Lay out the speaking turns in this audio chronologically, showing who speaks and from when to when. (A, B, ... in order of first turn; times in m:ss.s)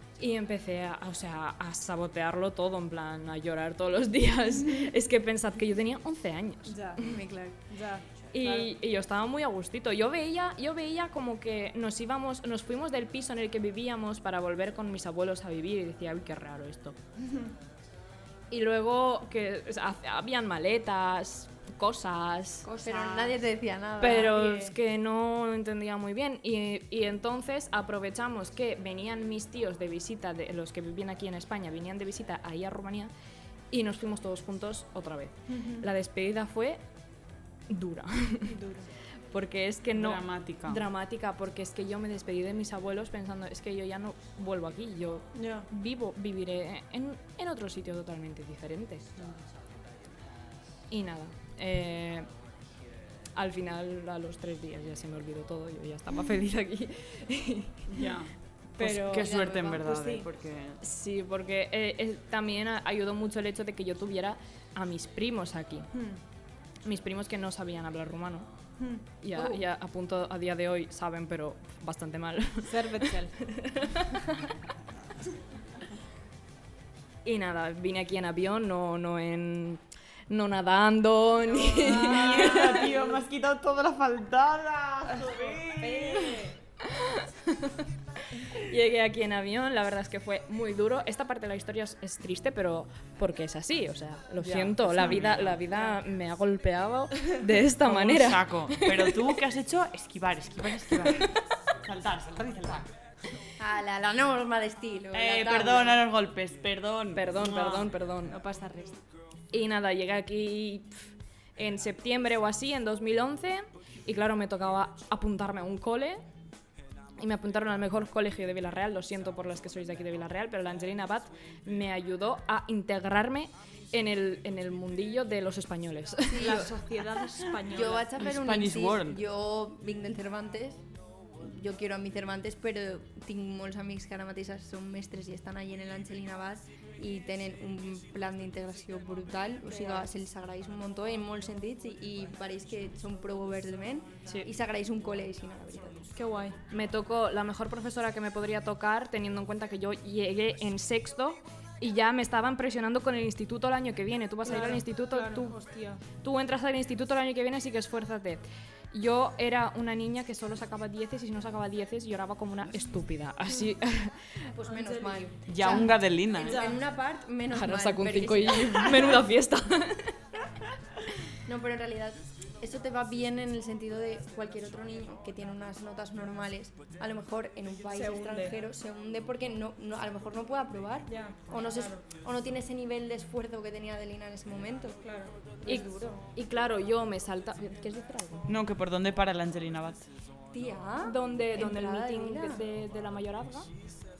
0:00.2-0:07.2 A
0:06.6-0:08.6 B
0:07.0-0:07.6 C
0:08.3-0:17.0 A
0:17.2-0:17.5 B
0:18.5-0:22.7 A
0:22.6-0:23.4 B
0:22.8-0:24.6 C
0:24.0-0:33.1 A
0:33.7-0:36.8 A
0:35.5-0:35.8 B
0:37.7-0:38.5 A
0:38.4-0:38.9 B
0:39.3-0:49.0 A
0:39.9-0:40.8 D
0:45.3-0:45.7 B
0:50.9-0:52.3 A
0:53.3-0:58.1 A
0:57.9-1:00.8 D
0:58.8-1:00.3 B
0:59.1-0:59.9 C
1:00.8-1:05.9 A
1:05.9-1:06.2 B
1:06.8-1:08.5 A
1:08.8-1:09.0 B
1:09.2-1:14.2 A
1:12.6-1:13.3 B
1:17.2-1:22.9 A
1:21.5-1:23.1 B
1:21.8-1:26.5 D
1:25.1-1:26.5 B
1:26.8-1:27.8 A
1:28.4-1:39.1 A
1:34.4-1:35.6 D
1:37.8-1:42.9 D
1:43.6-1:46.1 C
1:45.1-1:47.9 D
1:47.1-1:48.4 A
1:48.2-1:49.0 B
1:49.5-1:56.2 A
1:57.2-2:06.7 A
2:06.3-2:06.7 C
2:06.3-2:08.1 B
2:07.7-2:10.8 C
2:08.2-2:09.2 D
2:11.4-2:26.1 C
2:26.1-2:26.6 B
2:26.7-2:35.6 A
2:34.4-2:36.0 B
2:36.1-2:44.5 A
2:44.5-2:49.2 C
2:44.6-2:45.8 B
2:45.5-2:46.7 D
2:46.4-2:46.8 B
2:47.5-2:50.2 A
2:51.4-3:05.0 C
2:57.9-2:58.6 B
3:01.1-3:02.0 B
3:05.0-3:06.2 B
3:05.6-3:08.5 A
3:08.5-3:10.1 D
3:10.5-3:12.6 C
3:11.0-3:13.7 A